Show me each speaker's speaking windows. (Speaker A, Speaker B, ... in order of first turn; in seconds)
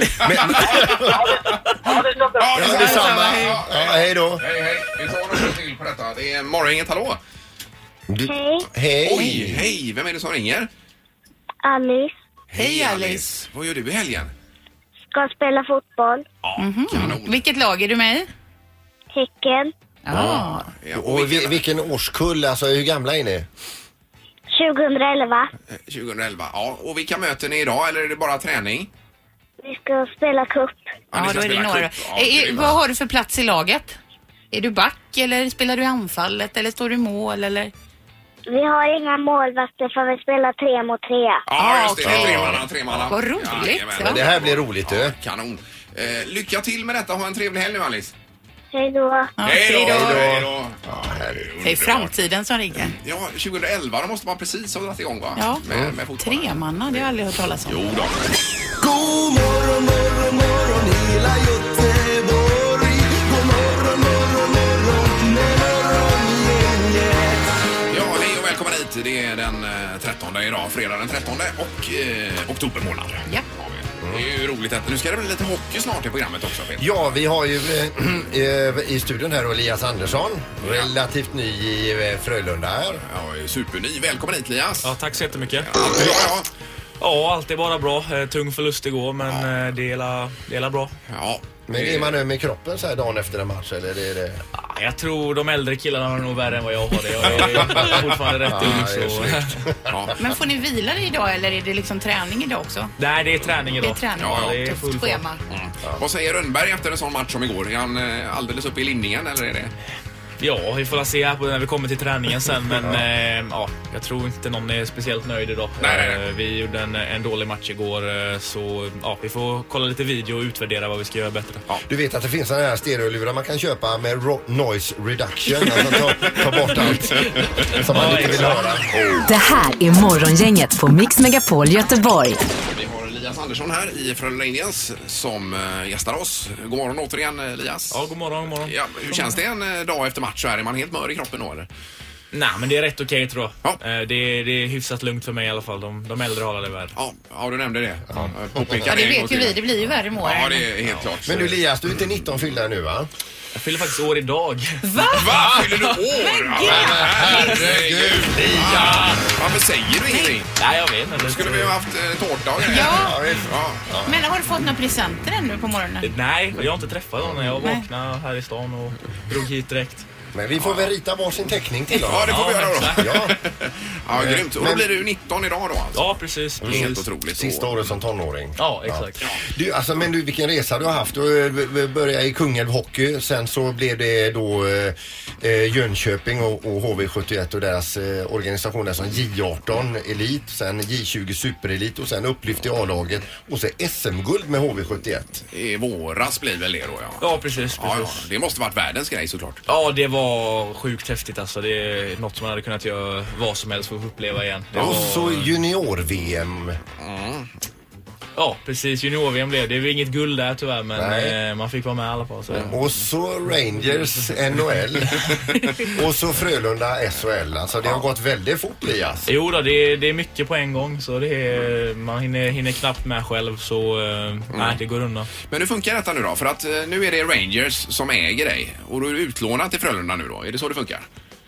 Speaker A: 0.2-1.3, 2.4-7.2, 9.0-10.7, 12.5-14.3, 16.4-17.4, 20.1-21.6, 25.7-28.9, 31.1-32.8, 41.5-48.1, 49.4-52.2, 52.8-57.1, 57.6-58.2, 67.9-76.9, 80.6-80.9, 83.1-85.0, 85.6-86.5, 91.1-92.1, 99.9-100.2, 104.2-104.6, 105.5-109.7, 115.8-116.2, 132.7-138.0, 138.6-141.7, 147.0-149.6, 150.2-151.6, 155.1-160.5, 161.2-163.8, 170.6-170.9, 172.0-176.0, 176.6-177.9, 195.5-197.3, 197.8-199.6, 207.0-207.5, 224.5-224.8, 225.4-231.1
Speaker B: 0.2-1.2, 2.5-4.4, 8.1-9.7, 20.9-23.5, 42.0-43.1, 44.0-45.1, 49.9-51.5, 55.7-55.9, 76.8-83.0, 91.7-94.4, 97.2-100.0, 121.9-128.9, 148.1-148.8, 151.2-153.1, 156.6-159.2, 162.8-164.2, 170.3-173.3, 174.1-174.9, 176.6-195.4, 204.7-206.8, 211.0-211.4, 212.6-215.3, 215.8-219.3
Speaker C: 0.7-2.7
Speaker D: 2.7-3.5, 12.6-13.3, 16.6-18.3, 20.1-20.7, 31.1-34.0, 34.5-37.7, 41.5-44.2, 49.4-50.3, 51.6-53.0, 55.4-55.6, 56.2-57.8, 100.2-102.9, 103.8-105.4, 148.8-150.7, 154.8-157.6, 160.1-160.4, 162.7-163.2, 164.1-166.1, 167.6-167.9
Speaker E: 8.3-8.7, 11.6-12.1, 15.1-16.2, 19.1-19.7, 24.5-25.5, 29.6-30.9, 38.5-41.4, 48.7-49.3
Speaker F: 58.8-67.5
Speaker G: 84.8-85.7, 87.0-90.9, 94.6-99.6, 103.0-105.2, 110.4-121.6, 127.9-128.6, 137.9-138.7, 142.3-146.9, 153.6-154.8, 160.6-161.7, 166.0-170.1, 172.3-173.1, 175.9-177.0, 178.6-179.2, 197.2-198.2, 199.7-205.5, 208.4-212.8, 219.3-225.3
Speaker H: 129.3-132.4